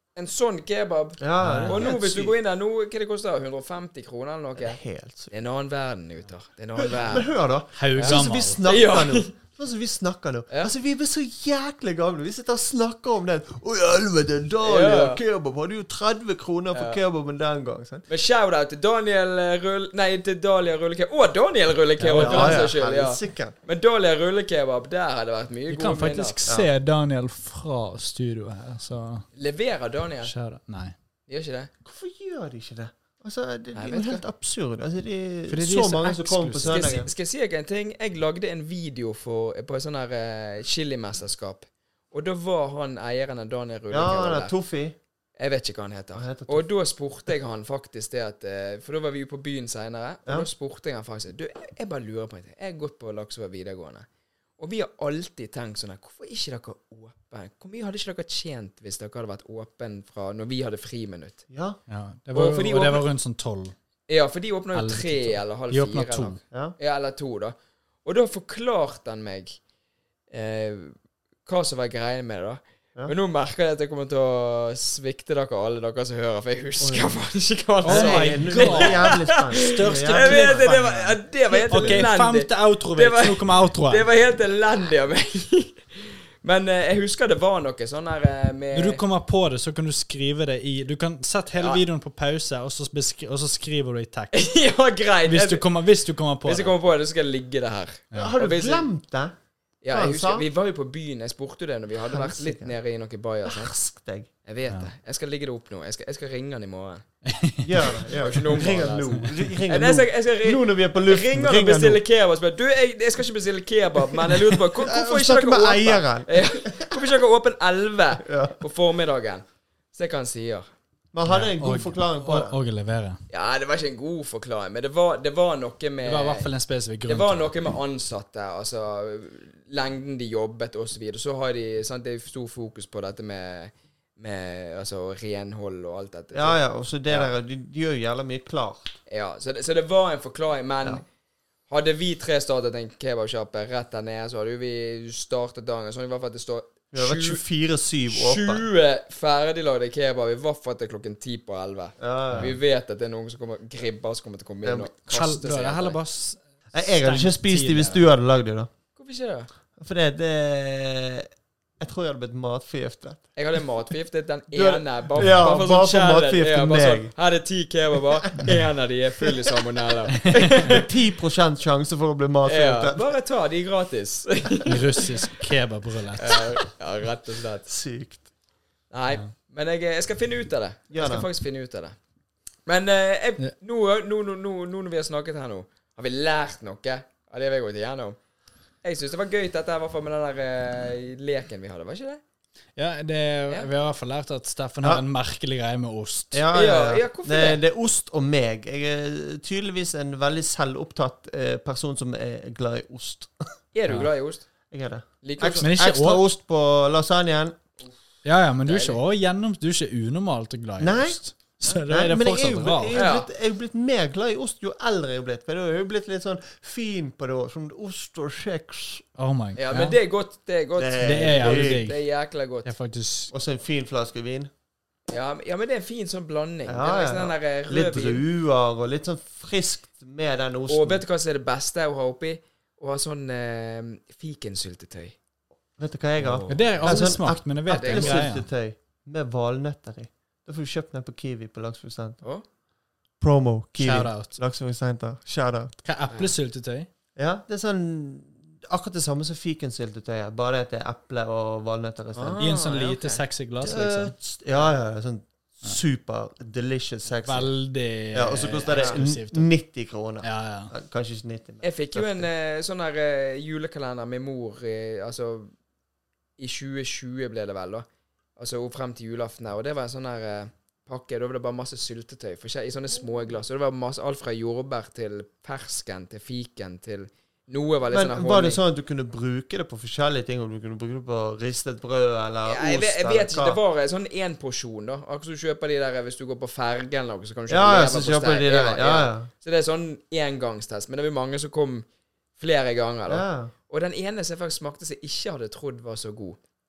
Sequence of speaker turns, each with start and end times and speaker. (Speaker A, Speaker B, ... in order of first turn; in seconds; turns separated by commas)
Speaker A: 0.1-4.8, Speaker B: 1.2-2.3, Speaker C: 1.4-1.9, Speaker B: 4.6-5.3, Speaker A: 5.3-7.3, Speaker B: 6.8-18.0, Speaker C: 7.8-8.7, Speaker A: 8.0-9.3, Speaker A: 14.6-15.2, Speaker A: 16.7-17.0, Speaker A: 18.1-26.4, Speaker C: 22.0-22.7, Speaker B: 22.1-23.5, Speaker C: 25.7-29.2, Speaker A: 29.4-30.3, Speaker C: 30.2-30.9, Speaker A: 31.3-31.7, Speaker B: 31.8-37.1, Speaker A: 33.7-34.2, Speaker C: 35.5-37.0, Speaker A: 36.6-44.5, Speaker B: 43.9-45.0, Speaker A: 45.4-54.0, Speaker B: 46.1-46.6, Speaker A: 54.6-61.4, Speaker B: 61.5-61.8, Speaker C: 61.9-63.7, Speaker A: 62.3-63.0, Speaker A: 64.1-69.6, Speaker C: 64.7-66.4, Speaker A: 70.3-70.9, Speaker A: 71.5-89.0, Speaker B: 76.8-77.2, Speaker C: 77.8-84.0, Speaker B: 77.8-81.0, Speaker B: 81.8-82.1, Speaker C: 88.7-94.4, Speaker A: 91.5-91.8, Speaker A: 94.3-95.6, Speaker C: 95.2-96.7, Speaker A: 96.4-98.9, Speaker B: 98.1-99.3, Speaker A: 99.8-103.7, Speaker B: 99.9-100.5, Speaker B: 102.1-102.7, Speaker B: 103.5-104.3, Speaker A: 104.4-107.0, Speaker C: 107.2-109.3, Speaker B: 107.6-112.0, Speaker A: 108.2-120.7, Speaker B: 114.4-117.0, Speaker B: 118.2-118.6, Speaker B: 121.1-122.5, Speaker C: 121.2-123.2, Speaker A: 123.3-126.5, Speaker C: 126.0-127.5, Speaker A: 127.1-136.6, Speaker B: 136.3-139.0, Speaker A: 139.1-141.0, Speaker A: 141.7-147.4, Speaker B: 146.9-148.6, Speaker A: 148.1-156.0, Speaker B: 152.0-152.6, Speaker B: 154.6-154.9, Speaker C: 155.1-158.0, Speaker B: 156.7-158.7, Speaker A: 159.0-159.5, Speaker B: 159.8-161.3, Speaker B: 161.8-163.3, Speaker A: 163.3-170.9, Speaker B: 164.5-167.1, Speaker C: 165.2-165.5, Speaker B: 168.2-168.6, Speaker B: 169.2-169.5, Speaker C: 170.2-170.7, Speaker B: 170.5-173.0, Speaker A: 172.4-175.4, Speaker C: 174.6-176.6, Speaker A: 176.2-177.7, Speaker B: 177.7-178.2, Speaker A: 178.9-181.9, Speaker B: 180.9-181.3, Speaker A: 182.7-188.2, Speaker A: 188.8-192.2, Speaker C: 192.8-196.4, Speaker B: 196.3-203.5, Speaker A: 196.5-197.6, Speaker A: 203.7-204.4, Speaker B: 204.7-207.6, Speaker A: 205.2-205.7, Speaker C: 205.6-206.2, Speaker C: 208.2-213.0, Speaker A: 208.6-209.0, Speaker B: 210.8-219.0, Speaker A: 212.9-213.3, Speaker C: 219.2-220.0, Speaker A: 219.6-222.7, Speaker B: 220.8-221.8, Speaker C: 221.0-222.0, Speaker C: 222.6-223.3, Speaker B: 223.3-224.5, Speaker A: 225.1-228.2, Speaker B: 226.7-231.0, Speaker A: 230.7-235.2, Speaker B: 235.8-242.2, Speaker C: 236.2-238.5, Speaker A: 237.7-238.2, Speaker B: 243.2-245.8, Speaker C: 243.8-244.3, Speaker C: 245.8-246.9, Speaker B: 247.2-252.4, Speaker A: 252.1-253.2, Speaker C: 252.4-254.1, Speaker B: 253.6-257.5, Speaker C: 257.2-259.5, Speaker B: 258.1-262.3, Speaker A: 258.7-259.0, Speaker C: 260.2-260.7, Speaker A: 261.6-265.5, Speaker A: 266.4-267.9, Speaker A: 268.4-278.6, Speaker B: 277.9-283.6, Speaker A: 282.4-291.9, Speaker B: 287.5-289.3, Speaker A: 292.4-296.4, Speaker B: 293.1-293.5